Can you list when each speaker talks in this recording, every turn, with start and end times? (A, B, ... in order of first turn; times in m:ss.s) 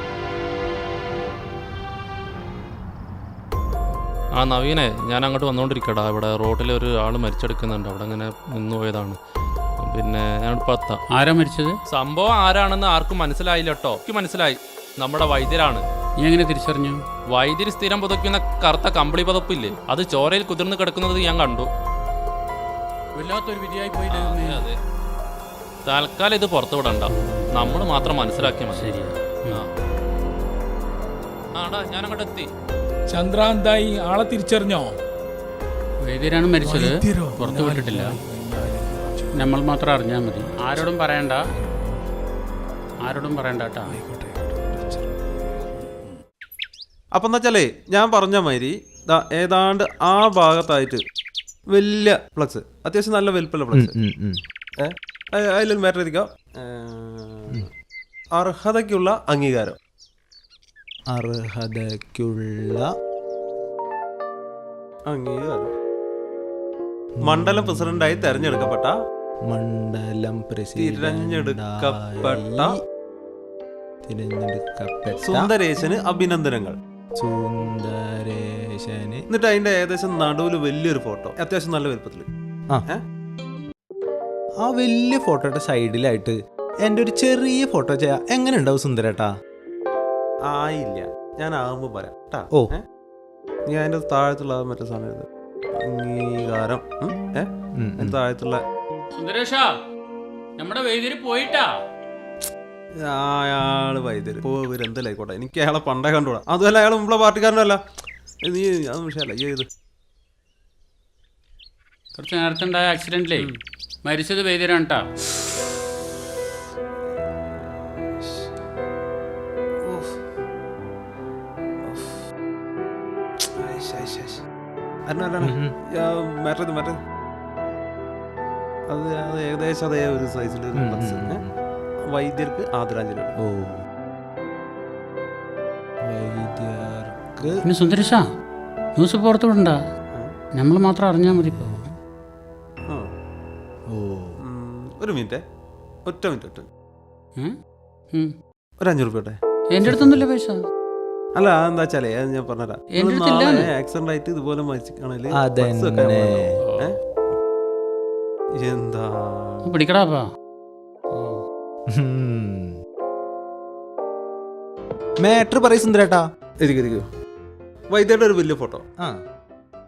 0:04.3-0:09.2 A
0:09.8-0:11.0 A
0:11.1-0:11.8 B
0:11.9-0:15.8 A
0:16.2-0:17.0 B
0:17.3-0:21.7 A
0:24.1-0:24.7 A
0:25.8-0:29.0 A
0:28.7-0:29.6 B
0:31.5-0:32.5 A
0:33.1-0:34.9 C
0:36.0-0:38.2 B
0:36.6-0:39.2 C
0:39.3-0:41.5 B
0:43.0-0:44.0 B
0:43.9-0:44.4 C
0:47.1-0:51.0 D
0:51.7-0:54.0 D
0:53.7-0:54.4 E
0:54.8-0:57.6 D
0:58.4-0:59.8 D
1:01.1-1:02.9 E
1:05.1-1:05.7 D
1:07.2-1:08.9 D
1:09.5-1:12.6 E
1:10.7-1:12.8 D
1:14.0-1:15.4 E
1:15.2-1:16.8 D
1:17.2-1:19.2 E
1:19.3-1:22.3 D
1:24.6-1:29.3 E
1:30.5-1:32.8 D
1:33.7-1:35.2 D
1:35.8-1:38.6 D
1:37.8-1:38.1 E
1:39.2-1:39.7 B
1:40.6-1:41.7 B
1:43.1-1:47.8 D
1:48.4-1:49.7 D
1:52.2-1:53.5 B
1:54.0-1:55.1 B
1:59.8-2:00.1 D
2:01.8-2:02.1 D
2:03.6-2:04.4 D
2:05.0-2:07.0 D
2:08.9-2:11.4 D
2:10.8-2:11.5 E
2:12.1-2:13.3 D
2:13.4-2:13.8 E
2:16.0-2:17.6 E
2:17.6-2:18.3 B
2:19.0-2:19.8 B
2:20.6-2:21.9 B
2:23.9-2:24.4 E
2:24.4-2:25.4 D
2:26.0-2:26.6 D
2:28.8-2:29.4 D
2:29.7-2:30.6 B
2:29.8-2:30.1 E
2:31.3-2:37.0 D
2:32.9-2:33.7 B
2:35.3-2:36.4 E
2:38.6-2:39.7 D
2:39.6-2:40.3 B
2:41.1-2:41.4 B
2:41.9-2:42.7 E
2:45.2-2:46.2 E
2:46.6-2:47.0 D
2:47.9-2:48.8 D